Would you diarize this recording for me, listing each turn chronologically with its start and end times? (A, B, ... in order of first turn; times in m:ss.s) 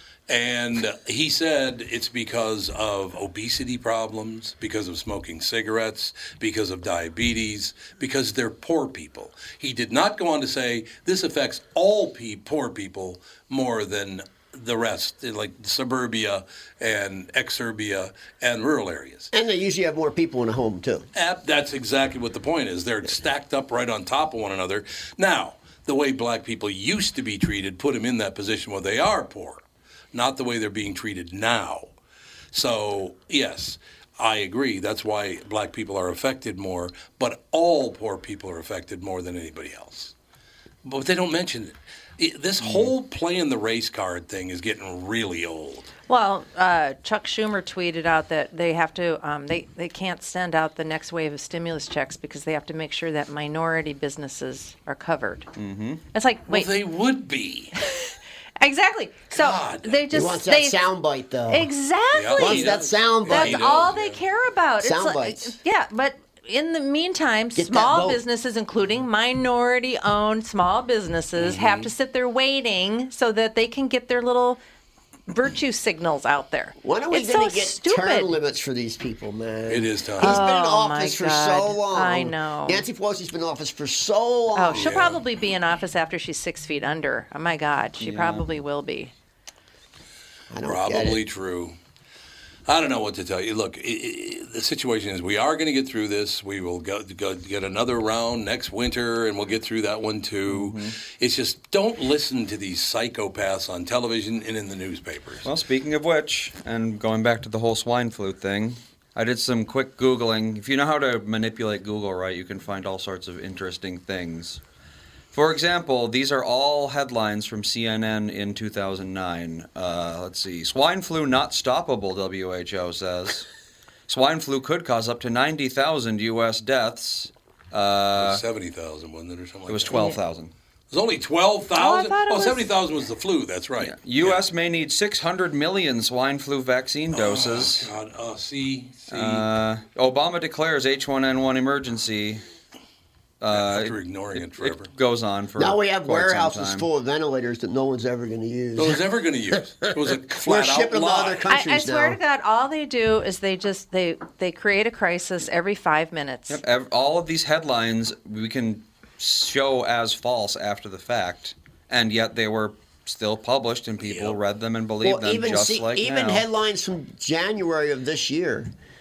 0:00.3-0:19.3 A
0:19.3-0:21.1 B
0:21.1-0:31.9 A
0:32.5-0:40.1 A
0:40.8-0:45.9 A
0:42.6-0:42.9 C
0:46.1-0:55.5 D
0:55.6-0:56.0 C
0:56.1-0:56.7 D
0:56.5-0:57.7 A
0:57.8-1:00.8 D
0:59.3-1:00.0 A
1:00.1-1:01.7 B
1:01.5-1:14.6 D
1:02.1-1:04.2 A
1:02.4-1:03.6 B
1:04.8-1:05.5 B
1:07.6-1:08.2 B
1:11.4-1:11.9 A
1:15.3-1:18.3 D
1:16.8-1:24.9 B
1:19.7-1:20.4 A
1:20.2-1:22.8 D
1:24.5-1:29.1 D
1:24.7-1:25.2 A
1:28.0-1:28.5 C
1:30.5-1:31.2 B
1:30.6-1:31.8 A
1:32.6-1:45.5 A
1:40.5-1:41.0 C
1:45.4-1:54.6 C
1:55.3-2:03.5 C
2:04.1-2:08.4 C
2:08.2-2:10.0 A
2:09.7-2:10.5 C
2:09.9-2:10.2 D
2:10.9-2:14.4 A
2:11.7-2:12.7 D
2:13.8-2:17.9 C
2:17.1-2:19.5 A
2:19.1-2:22.4 C
2:23.4-2:24.0 C
2:23.5-2:24.9 A
2:24.5-2:26.9 C
2:25.6-2:29.0 B
2:28.8-2:31.4 A
2:30.4-2:32.2 B
2:31.5-2:36.6 D
2:36.5-2:46.4 C
2:44.0-2:44.4 A
2:45.0-2:48.7 B